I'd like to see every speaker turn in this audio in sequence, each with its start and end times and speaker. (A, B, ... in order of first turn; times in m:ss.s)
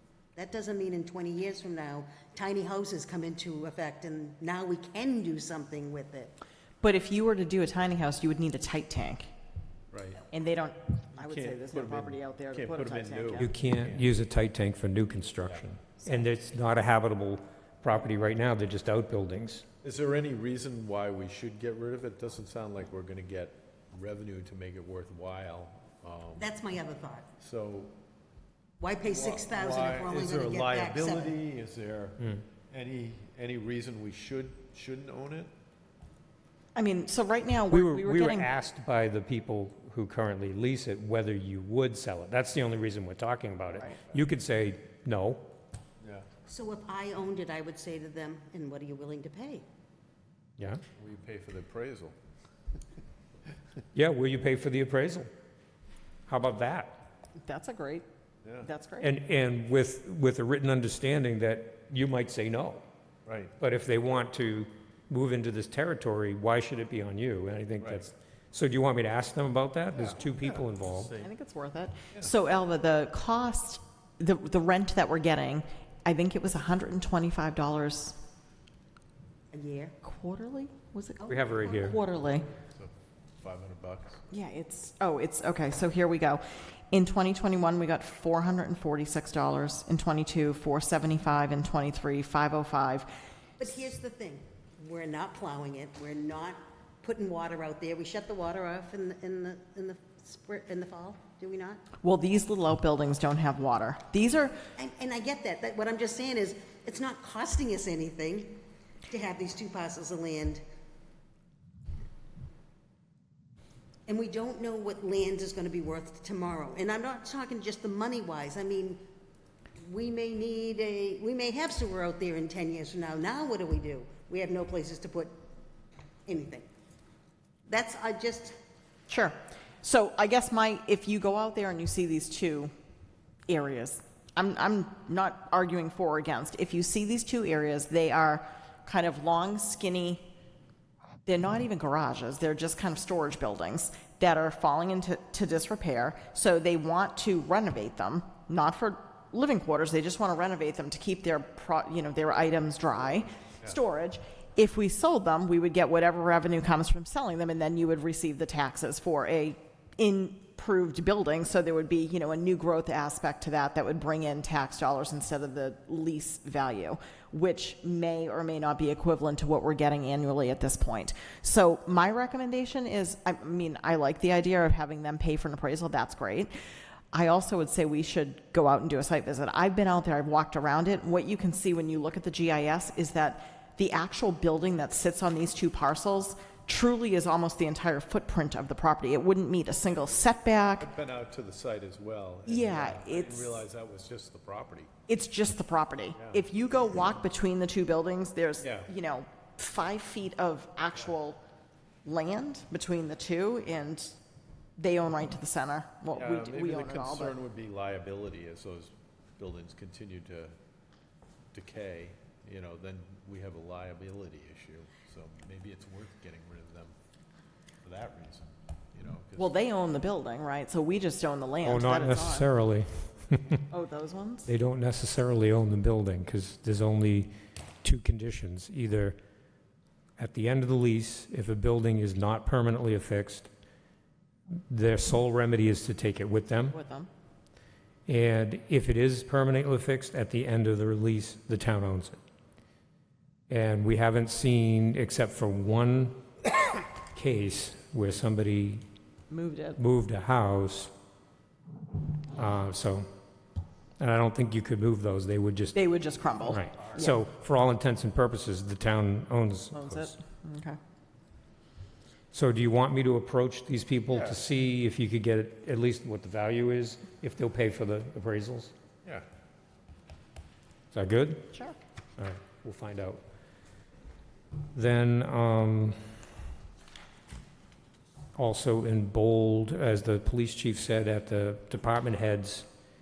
0:00.4-0:06.3 A
0:06.8-0:09.3 B
0:09.9-0:10.3 C
0:10.3-0:13.5 B
0:11.2-0:14.1 C
0:13.4-0:19.6 D
0:19.8-0:26.5 C
0:26.4-0:27.3 A
0:27.4-0:27.9 C
0:28.8-0:31.4 A
0:29.1-0:35.5 C
0:36.8-0:38.5 B
0:37.7-0:45.5 D
0:46.0-0:46.3 C
0:46.4-0:49.6 A
0:51.0-0:52.2 C
0:53.9-0:55.3 D
0:56.3-0:57.0 D
0:57.4-0:58.1 B
0:58.6-0:59.1 B
0:59.0-1:02.8 D
1:03.3-1:03.5 C
1:03.6-1:11.1 D
1:07.8-1:08.0 C
1:10.0-1:11.3 C
1:11.2-1:18.2 B
1:19.5-1:20.0 A
1:20.0-1:22.5 B
1:21.2-1:21.8 A
1:21.3-1:22.0 D
1:22.6-1:24.2 C
1:24.3-1:33.1 B
1:33.6-1:41.8 A
1:42.0-1:44.6 B
1:44.8-1:50.6 A
1:54.1-1:59.0 A
1:59.8-2:05.3 A
2:06.3-2:06.7 A
2:07.7-2:08.6 A
2:09.1-2:12.7 B
2:13.5-2:20.2 B
2:21.3-2:56.5 B
2:57.1-3:10.9 B
3:10.8-3:14.9 C
3:12.5-3:13.6 B
3:15.1-3:21.4 B
3:18.6-3:18.9 C
3:22.0-3:24.2 B
3:24.8-3:27.4 B
3:26.2-3:30.5 C
3:31.5-3:37.0 C
3:37.8-3:39.5 C
3:39.4-3:42.5 B
3:41.6-3:43.6 D
3:43.7-3:44.5 B
3:44.5-3:47.3 D
3:47.8-3:49.2 D
3:50.2-3:53.5 D
3:54.7-3:56.8 D
3:56.7-3:57.1 B
3:58.1-4:02.2 D
4:03.5-4:06.2 D
4:07.1-4:08.8 D
4:09.3-4:09.8 B
4:09.8-4:10.9 D
4:12.3-4:13.1 D
4:14.0-4:15.8 D
4:15.7-4:17.2 B
4:16.5-4:20.2 D
4:19.7-4:20.8 B
4:22.3-4:28.7 D
4:24.1-4:24.4 C
4:30.9-4:31.5 D
4:32.2-4:33.2 D
4:34.8-4:36.0 D
4:38.4-4:42.7 D